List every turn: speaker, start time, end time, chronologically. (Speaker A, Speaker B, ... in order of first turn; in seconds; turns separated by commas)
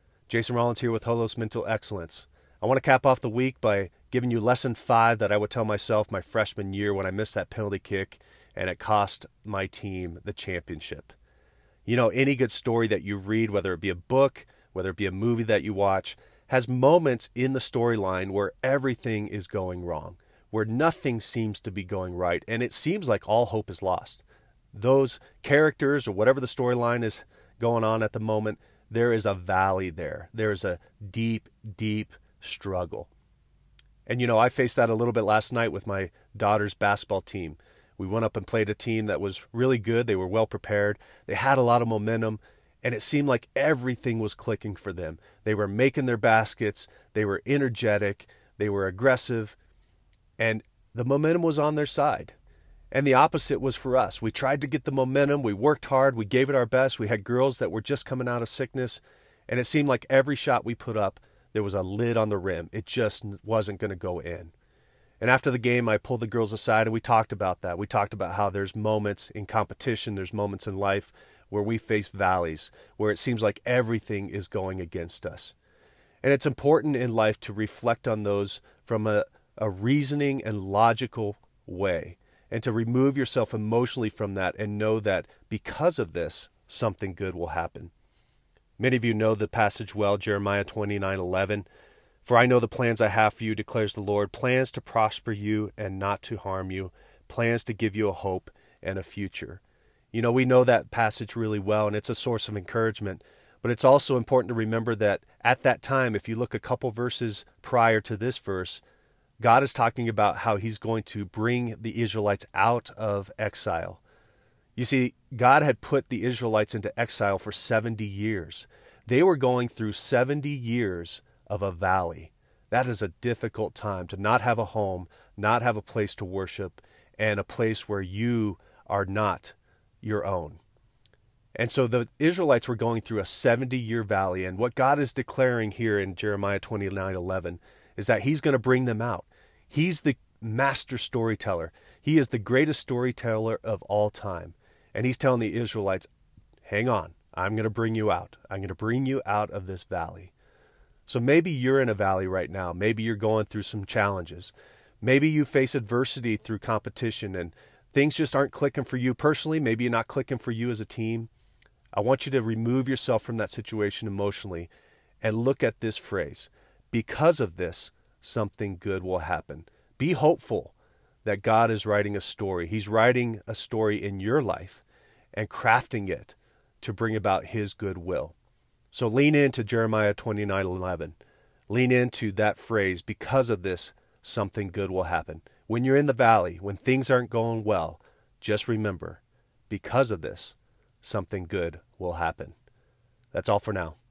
Speaker A: 0.3-11.2, Speaker A: 11.9-33.1, Speaker A: 34.1-49.5, Speaker A: 50.4-52.4, Speaker A: 52.9-64.5, Speaker A: 65.2-75.5, Speaker A: 76.2-87.9, Speaker A: 88.8-91.7, Speaker A: 92.2-99.6, Speaker A: 100.1-108.8, Speaker A: 109.4-114.0, Speaker A: 114.8-130.6, Speaker A: 131.6-146.1, Speaker A: 146.7-150.3, Speaker A: 151.1-161.3, Speaker A: 161.9-164.7, Speaker A: 165.2-170.7, Speaker A: 171.2-174.8, Speaker A: 175.3-178.3, Speaker A: 178.9-181.2, Speaker A: 181.7-192.5, Speaker A: 193.3-194.0